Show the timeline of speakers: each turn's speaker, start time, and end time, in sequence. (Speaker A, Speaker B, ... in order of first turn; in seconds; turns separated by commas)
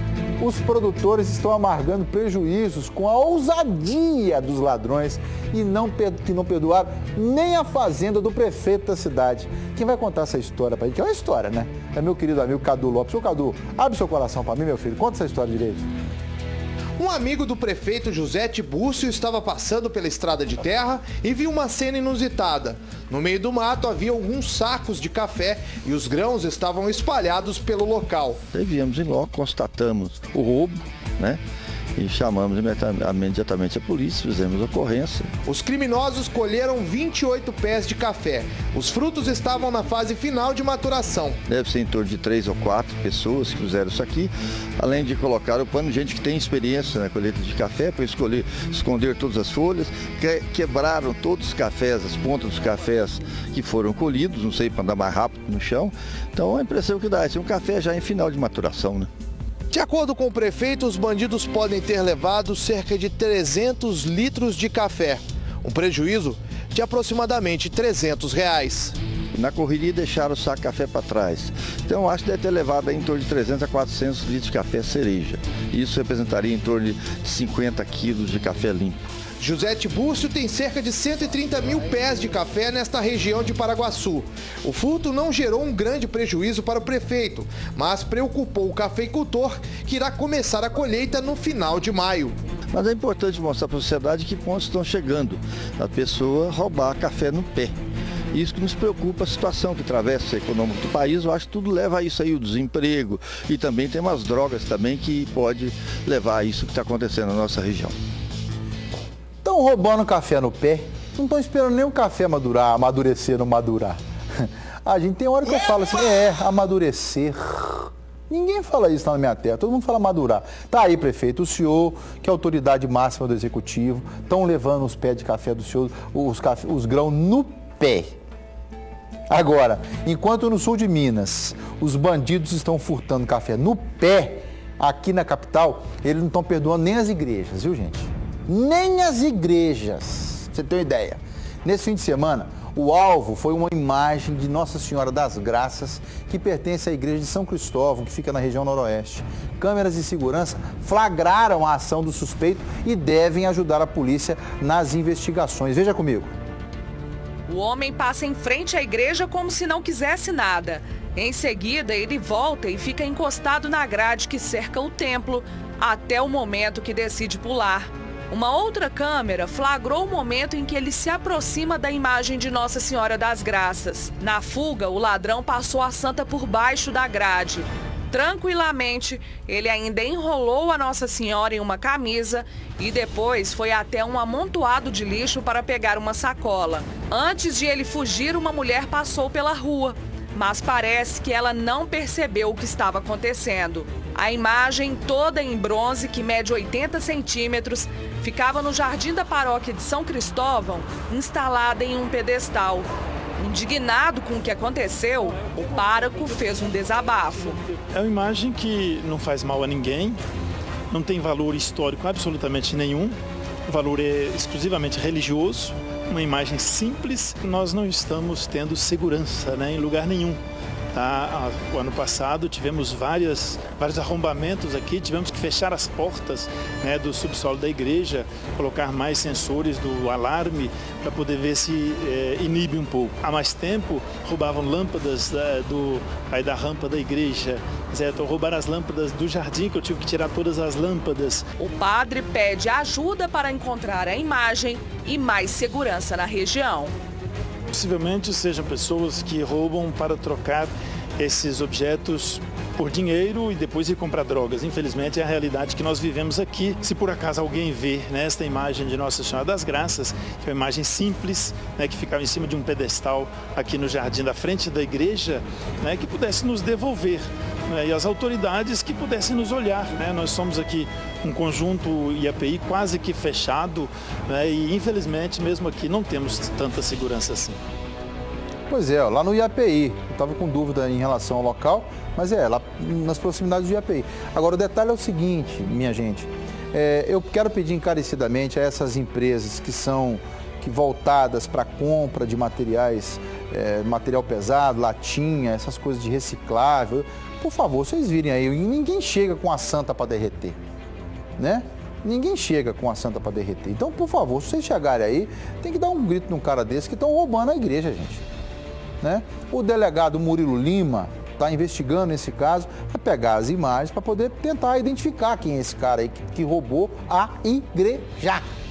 Speaker A: 0.4-15.9, Speaker B: 17.0-28.4, Speaker C: 28.5-31.4, Speaker C: 31.9-35.3, Speaker B: 35.4-41.4, Speaker C: 41.5-59.1, Speaker B: 59.7-69.0, Speaker C: 69.3-79.0, Speaker B: 79.4-92.3, Speaker C: 92.7-97.8, Speaker C: 98.3-108.0, Speaker A: 109.4-128.1, Speaker A: 129.3-156.3, Speaker D: 157.5-202.9, Speaker D: 203.4-207.6, Speaker E: 207.9-210.2, Speaker E: 210.9-220.4, Speaker E: 220.9-241.4, Speaker D: 241.6-246.9, Speaker E: 247.7-277.6, Speaker A: 278.7-300.6, Speaker A: 301.4-308.2, Speaker A: 309.0-318.4